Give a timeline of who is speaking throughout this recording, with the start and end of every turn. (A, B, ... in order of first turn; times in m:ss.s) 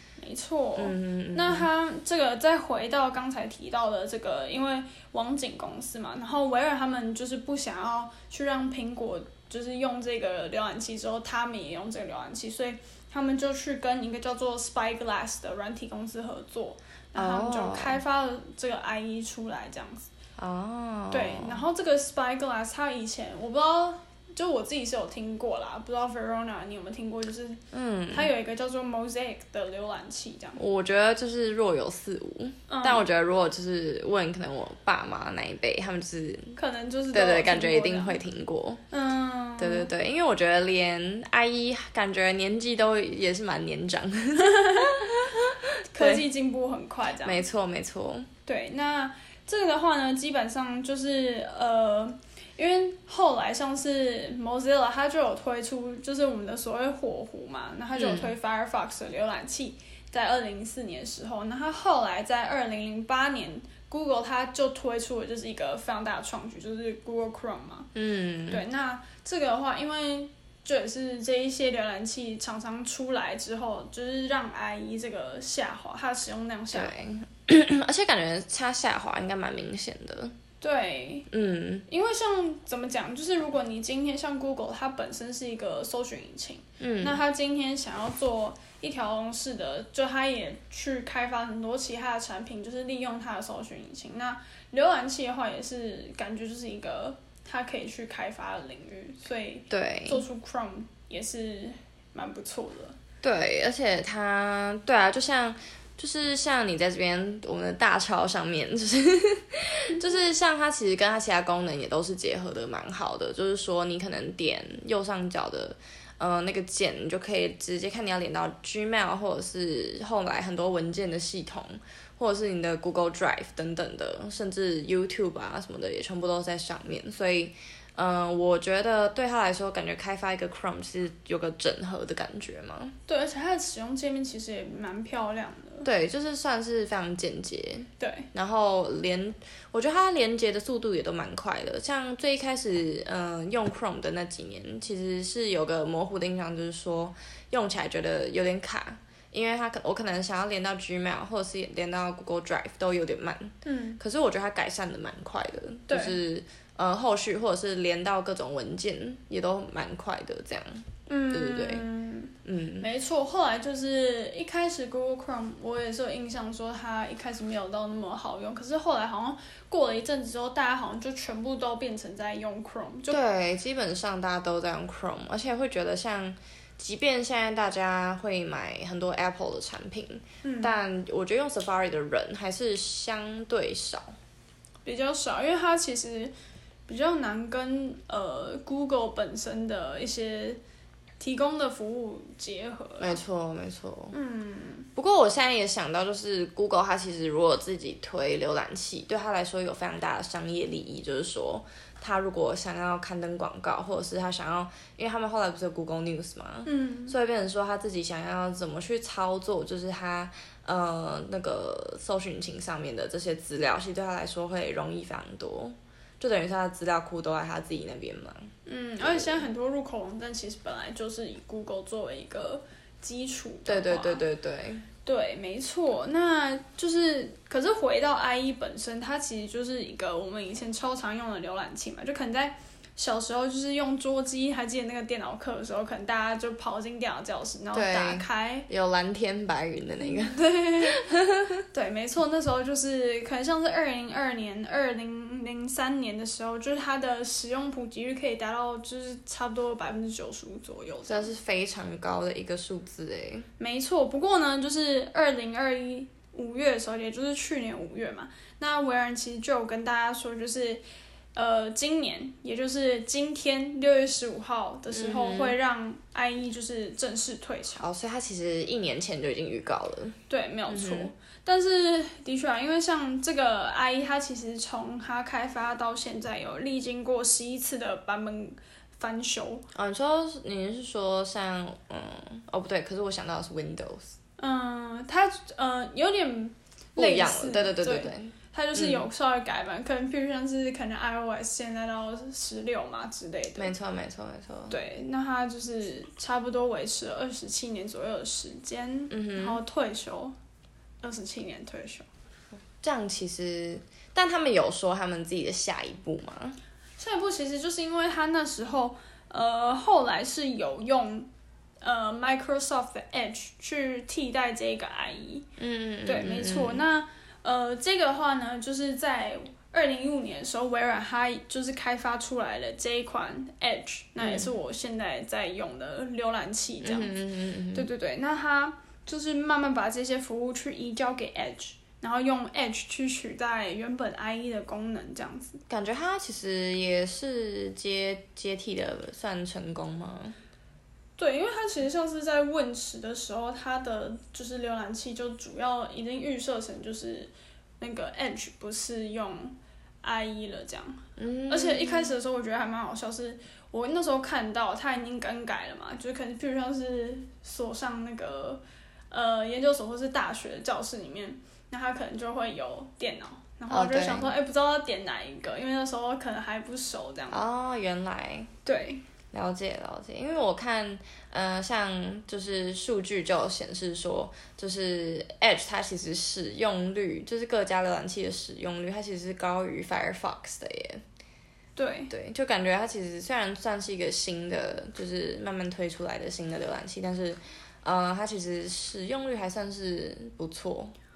0:00.2-0:20.1 A
0:00.8-0:01.7 B
0:17.2-0:18.0 B
0:20.4-0:21.6 B
0:21.1-0:30.6 A
0:27.7-0:28.3 B
0:30.6-0:36.6 B
0:32.7-0:33.1 A
0:36.6-0:38.2 A
0:37.1-0:38.8 B
0:38.9-0:39.9 A
0:39.6-0:46.3 B
0:44.4-0:45.1 A
0:45.9-0:47.4 A
0:47.2-0:48.3 B
0:48.5-1:07.9 A
0:58.0-0:58.3 B
1:08.0-1:08.6 B
1:08.5-1:16.9 A
1:16.7-1:20.4 B
1:20.6-1:21.3 A
1:21.3-1:21.8 B
1:21.9-1:43.0 A
1:26.8-1:27.2 B
1:39.7-1:40.2 B
1:43.2-2:12.9 B
2:13.1-2:15.9 A
2:15.8-2:41.8 B
2:18.0-2:18.3 A
2:33.6-2:34.0 A
2:35.9-2:36.2 A
2:41.1-2:53.2 A
2:42.4-2:42.9 B
2:53.1-3:04.1 B
3:00.4-3:00.8 A
3:04.8-3:06.3 A
3:06.9-3:10.6 A
3:11.2-3:13.2 A
3:13.0-3:14.2 B
3:14.1-3:14.9 A
3:15.0-3:39.5 B
3:26.7-3:27.2 A
3:38.7-3:44.2 A
3:43.7-3:44.8 B
3:45.0-3:58.7 A
3:57.7-4:01.6 B
4:00.0-4:01.1 A
4:01.7-4:11.3 A
4:11.1-4:13.5 B
4:13.6-4:20.8 A
4:21.4-4:27.9 A
4:24.9-4:25.6 B
4:27.8-4:30.2 B
4:30.3-4:39.6 A
4:30.7-4:31.1 B
4:39.7-4:44.2 B
4:44.4-4:53.7 A
4:47.0-4:49.1 B
4:53.6-4:54.8 B
4:54.7-5:00.4 A
4:59.1-4:59.6 B
5:01.0-5:02.1 A
5:02.8-5:06.6 B
5:07.0-5:11.3 A
5:11.8-5:15.5 A
5:15.6-5:16.8 B
5:16.1-5:27.2 A
5:24.2-5:24.5 B
5:26.8-5:27.9 B
5:27.7-5:35.6 A
5:35.7-5:40.4 B
5:41.2-6:07.4 A
5:51.2-5:52.2 B
6:03.7-6:04.3 B
6:07.3-6:08.5 B
6:08.6-6:09.0 A
6:09.3-6:21.0 B
6:21.8-6:22.1 A
6:22.1-6:30.9 B